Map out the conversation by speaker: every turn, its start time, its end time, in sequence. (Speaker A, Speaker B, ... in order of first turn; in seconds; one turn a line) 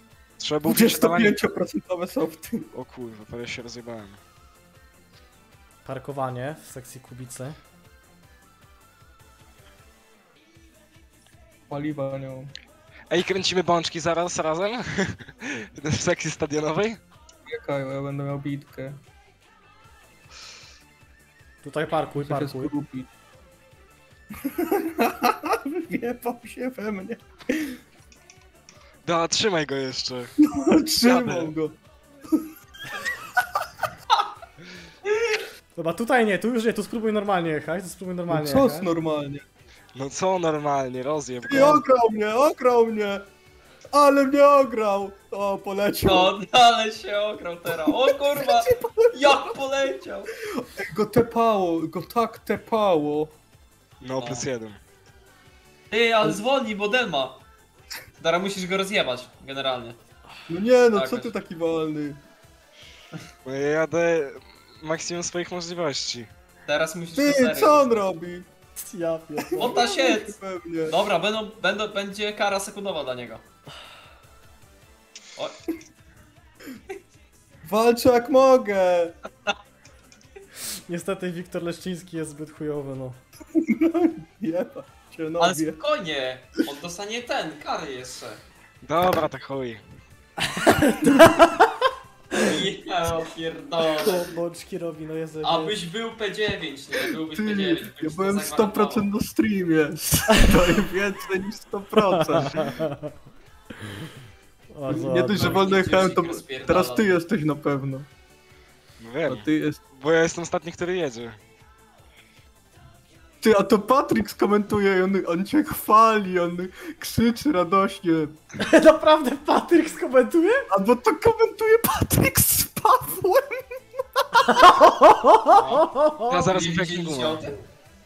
Speaker A: 0.4-1.4
Speaker B: 0.6-2.7
Speaker A: 2.7-4.2
Speaker C: 5.8-7.6
Speaker B: 11.7-12.5
Speaker A: 13.1-17.0
Speaker B: 17.5-19.0
Speaker C: 21.6-22.7
Speaker B: 22.2-23.1
Speaker B: 24.4-27.8
Speaker A: 29.1-30.4
Speaker B: 30.4-31.8
Speaker A: 31.1-31.5
Speaker C: 35.8-38.9
Speaker B: 38.3-39.4
Speaker A: 39.9-41.8
Speaker B: 41.5-43.3
Speaker B: 43.9-46.4
Speaker D: 46.0-50.3
Speaker B: 47.9-49.4
Speaker B: 50.5-53.4
Speaker A: 54.0-54.8
Speaker D: 54.2-54.5
Speaker D: 55.9-57.5
Speaker D: 58.2-60.0
Speaker B: 60.5-62.2
Speaker D: 60.9-61.4
Speaker A: 63.5-66.3
Speaker D: 66.7-68.0
Speaker B: 67.2-68.5
Speaker C: 68.8-69.9
Speaker B: 69.4-71.0
Speaker D: 69.6-73.4
Speaker D: 75.4-75.7
Speaker B: 77.7-79.2
Speaker C: 80.7-83.2
Speaker B: 83.5-85.8
Speaker D: 85.4-88.4
Speaker A: 88.8-89.8
Speaker C: 90.5-92.6
Speaker D: 92.4-94.3
Speaker C: 93.9-95.8
Speaker D: 95.4-99.1
Speaker B: 97.3-102.8
Speaker C: 102.1-103.2
Speaker C: 103.8-104.1
Speaker C: 104.7-105.7
Speaker B: 104.9-108.1
Speaker D: 105.3-107.2
Speaker A: 109.0-111.4
Speaker B: 109.2-109.8
Speaker B: 113.4-118.4
Speaker C: 118.6-120.7
Speaker B: 120.7-123.8
Speaker C: 124.5-126.5
Speaker D: 125.5-125.9
Speaker A: 126.3-127.5
Speaker D: 126.5-127.6